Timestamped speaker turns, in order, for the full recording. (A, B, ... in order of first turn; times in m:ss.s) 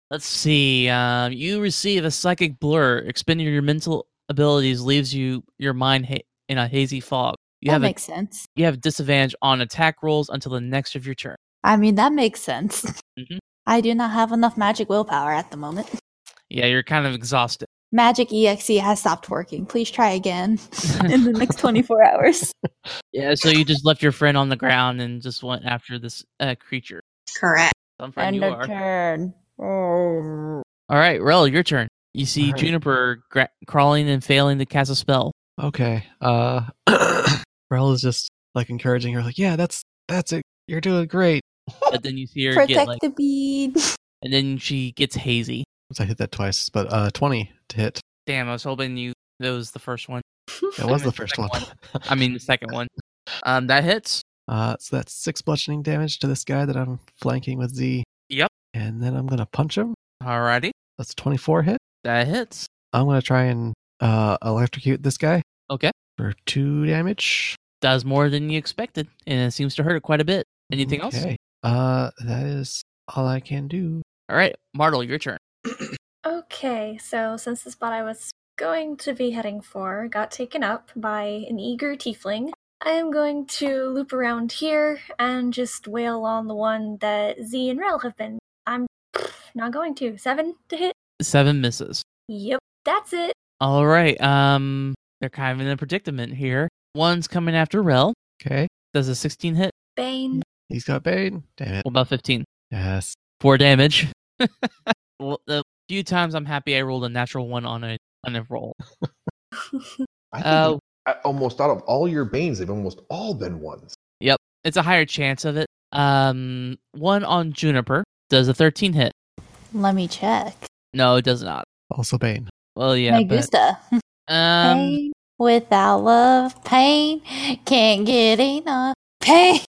0:00.1-0:07.9 A
0:07.7-0:08.4 B
0:08.6-0:11.4 A
0:11.6-0:12.9 B
0:13.7-0:15.9 B
0:16.5-0:17.7 A
0:17.9-0:22.5 B
0:23.1-0:27.0 A
0:27.3-0:30.6 B
0:28.0-0:28.7 A
0:30.9-0:35.3 A
0:32.4-0:32.7 C
0:35.6-0:41.4 C
0:41.9-0:43.0 A
0:42.5-0:43.7 B
0:44.2-0:45.6 A
0:45.9-0:48.0 C
0:48.3-0:50.2 A
0:50.8-0:52.1 C
0:50.9-0:52.9 A
0:53.4-0:54.2 A
0:54.5-0:58.0 C
0:58.8-1:00.0 C
1:00.2-1:00.7 A
1:01.0-1:01.8 C
1:02.0-1:02.7 A
1:02.9-1:05.4 C
1:06.2-1:07.6 C
1:07.8-1:11.2 A
1:10.7-1:14.0 C
1:14.3-1:15.4 A
1:16.3-1:30.9 D
1:31.2-1:32.0 A
1:32.3-1:33.4 D
1:33.6-1:38.2 A
1:38.4-1:38.7 C
1:38.9-1:39.7 A
1:40.0-1:40.4 D
1:40.3-1:41.8 C
1:41.8-1:42.4 A
1:42.7-1:43.2 C
1:43.4-1:48.8 A
1:49.0-1:49.3 C
1:49.7-1:50.0 D
1:50.3-1:53.9 E
1:50.4-1:50.8 A
1:54.2-1:59.1 A
1:59.8-2:00.6 B
2:00.9-2:01.6 A
2:01.9-2:02.5 C
2:02.8-2:03.5 A
2:03.1-2:03.8 B
2:04.3-2:05.0 A
2:04.6-2:09.6 B